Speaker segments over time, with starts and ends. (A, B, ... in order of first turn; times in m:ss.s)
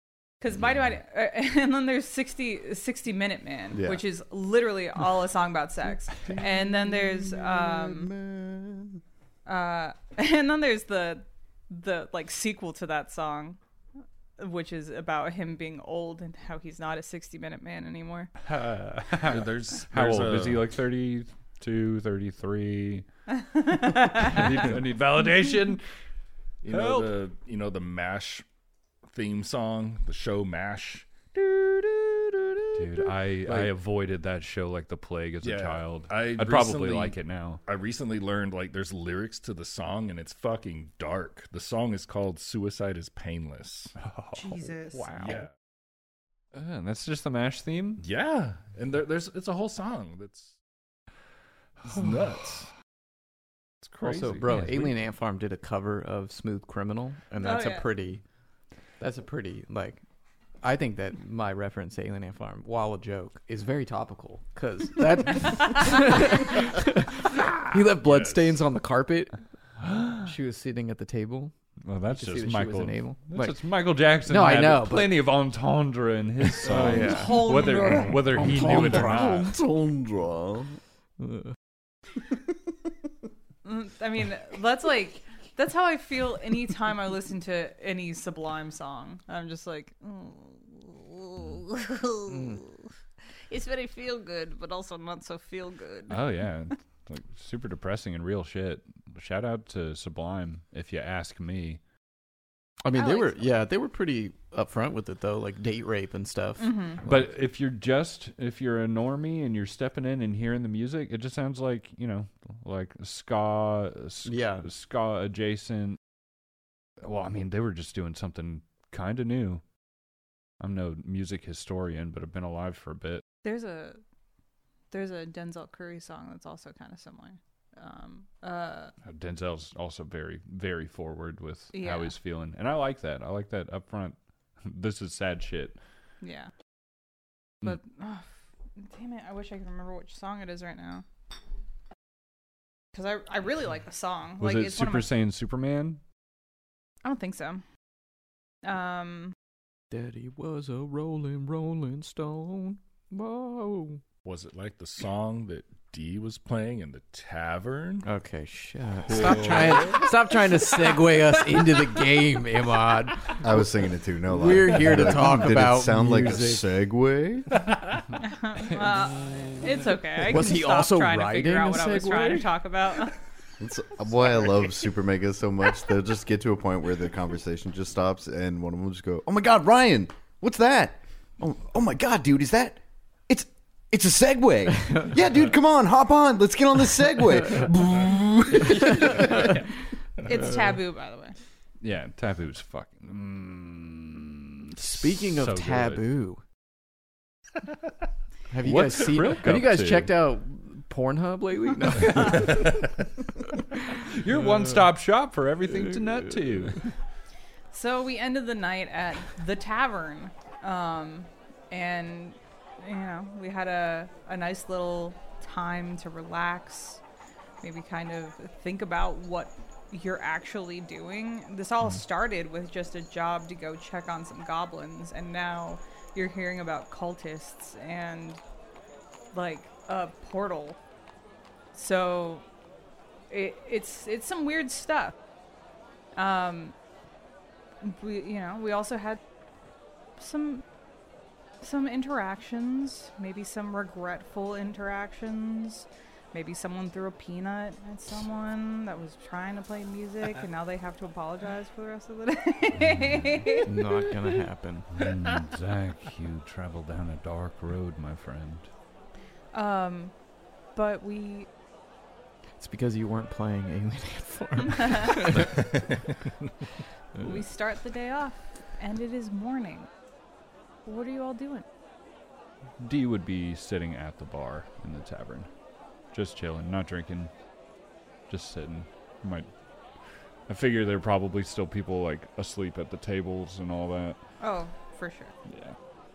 0:00.4-0:08.1 A
0:03.7-0:04.0 B
0:06.3-0:09.0 B
0:09.5-0:13.6 A
0:14.4-0:18.3 A
0:18.5-0:23.0 C
0:19.1-0:20.6 D
0:23.4-0:24.7 A
0:24.1-0:25.8 C
0:26.6-0:28.4 D
0:26.7-0:27.1 C
0:29.1-0:33.7 D
0:32.8-0:37.6 C
0:35.4-0:44.0 D
0:44.0-0:45.4 C
0:45.2-0:45.5 D
0:46.5-0:48.0 C
0:48.0-0:50.6 D
0:51.8-0:52.7 D
0:54.0-0:54.9 C
0:54.0-0:58.2 E
0:57.4-0:57.9 A
0:59.0-1:00.0 E
1:00.6-1:09.4 E
1:08.0-1:08.5 D
1:09.8-1:10.3 C
1:10.2-1:11.5 E
1:11.8-1:19.5 C
1:12.1-1:13.6 E
1:14.2-1:15.2 E
1:16.7-1:18.4 A
1:16.7-1:19.5 E
1:16.7-1:17.1 D
1:19.0-1:20.8 B
1:21.2-1:21.5 E
1:23.6-1:32.9 A
1:32.3-1:32.6 E
1:33.5-1:36.2 A
1:36.1-1:41.8 C
1:42.8-1:47.2 E
1:42.9-1:43.5 A
1:46.6-1:47.0 A
1:47.0-1:56.0 C
1:54.2-1:54.7 E
1:57.0-1:59.6 C
2:00.6-2:03.2 C
2:03.4-2:04.0 A
2:04.9-2:08.9 A
2:09.0-2:15.8 C
2:11.7-2:12.1 A
2:16.2-2:16.5 A
2:17.6-2:21.0 A
2:22.9-2:25.1 A
2:24.4-2:26.0 C
2:27.0-2:27.6 A
2:28.6-2:29.3 A
2:29.9-2:34.0 E
2:34.2-2:38.0 D
2:38.0-2:43.5 E
2:39.1-2:40.0 D
2:43.4-2:47.6 B
2:44.3-2:46.6 E
2:48.2-2:53.2 A
2:48.8-2:49.5 C
2:50.3-2:52.5 E
2:53.6-3:09.4 B
3:10.2-3:11.4 A
3:11.8-3:16.0 C
3:14.8-3:16.4 E
3:18.5-3:22.8 E
3:18.6-3:20.1 C
3:23.7-3:24.0 E
3:23.9-3:26.8 C
3:27.7-3:37.0 A
3:37.6-3:48.4 A
3:49.3-3:50.8 A
3:51.7-3:52.4 A
3:53.3-3:55.2 A
3:56.2-3:56.8 A
3:57.8-3:59.2 A
4:00.2-4:00.6 A
4:01.6-4:13.8 A
4:13.6-4:14.9 E
4:14.9-4:18.7 C
4:19.5-4:20.2 A
4:20.7-4:21.5 A
4:22.6-4:25.7 E
4:24.7-4:25.1 A
4:27.2-4:29.9 A
4:30.8-4:31.7 A
4:32.8-4:35.5 C
4:36.1-4:37.3 C
4:38.3-4:39.5 C
4:40.5-4:44.2 C
4:44.4-4:45.3 A
4:45.5-4:45.8 C